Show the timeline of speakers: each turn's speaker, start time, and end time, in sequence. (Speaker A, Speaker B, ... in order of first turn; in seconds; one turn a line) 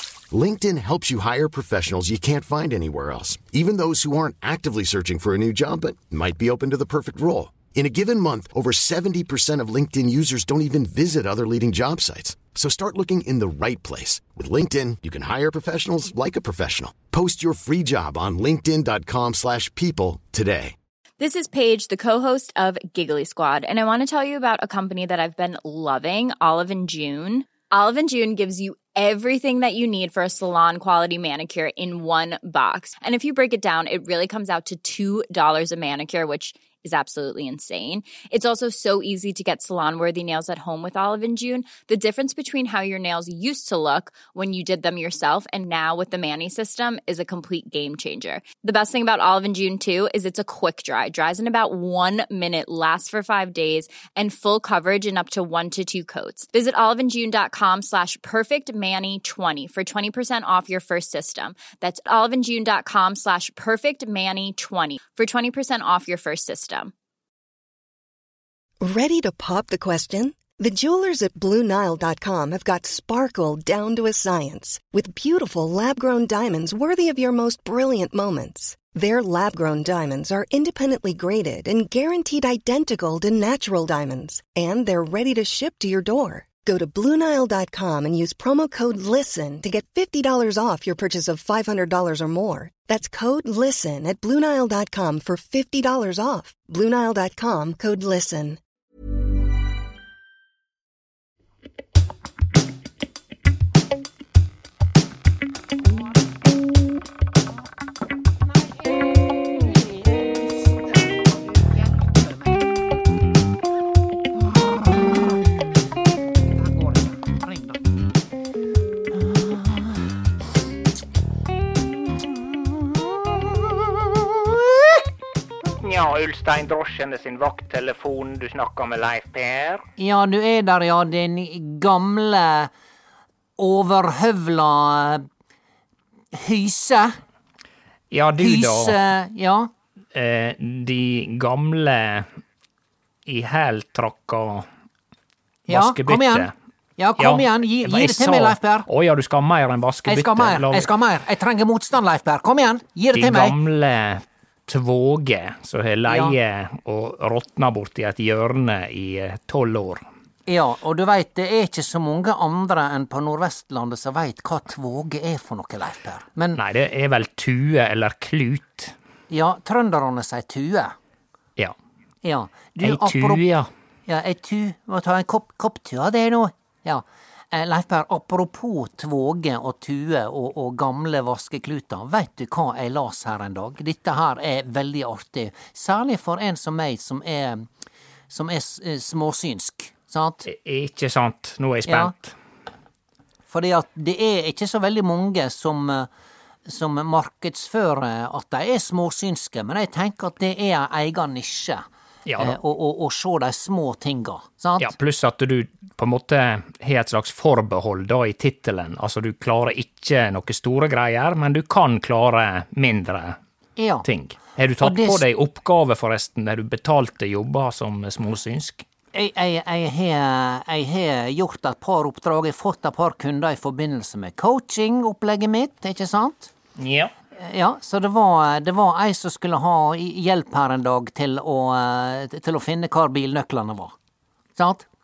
Speaker A: 0.3-20.8
Speaker B: 21.2-66.9
Speaker C: 68.8-98.6
Speaker D: 111.6-112.2
Speaker D: 114.5-115.2
Speaker D: 116.6-117.6
Speaker E: 125.8-129.8
Speaker D: 130.0-132.7
Speaker D: 133.6-135.2
Speaker D: 136.3-137.2
Speaker E: 138.1-139.0
Speaker D: 138.4-139.7
Speaker E: 140.1-142.3
Speaker E: 143.2-144.7
Speaker E: 145.7-146.5
Speaker D: 145.7-148.9
Speaker E: 147.2-150.9
Speaker D: 150.1-153.5
Speaker E: 153.1-160.0
Speaker D: 156.1-156.3
Speaker D: 160.5-166.6
Speaker E: 166.5-168.9
Speaker D: 169.3-170.9
Speaker D: 172.2-173.4
Speaker E: 172.8-173.7
Speaker D: 174.1-187.7
Speaker D: 188.3-190.4
Speaker E: 190.4-192.3
Speaker D: 191.8-192.1
Speaker D: 193.5-196.1
Speaker D: 196.7-201.8
Speaker E: 202.2-202.6
Speaker D: 202.4-204.9
Speaker E: 204.8-213.4
Speaker D: 213.8-214.1
Speaker E: 214.0-218.8
Speaker D: 214.8-215.2
Speaker D: 219.1-226.5
Speaker E: 226.8-227.1
Speaker D: 227.4-233.9
Speaker D: 234.6-234.8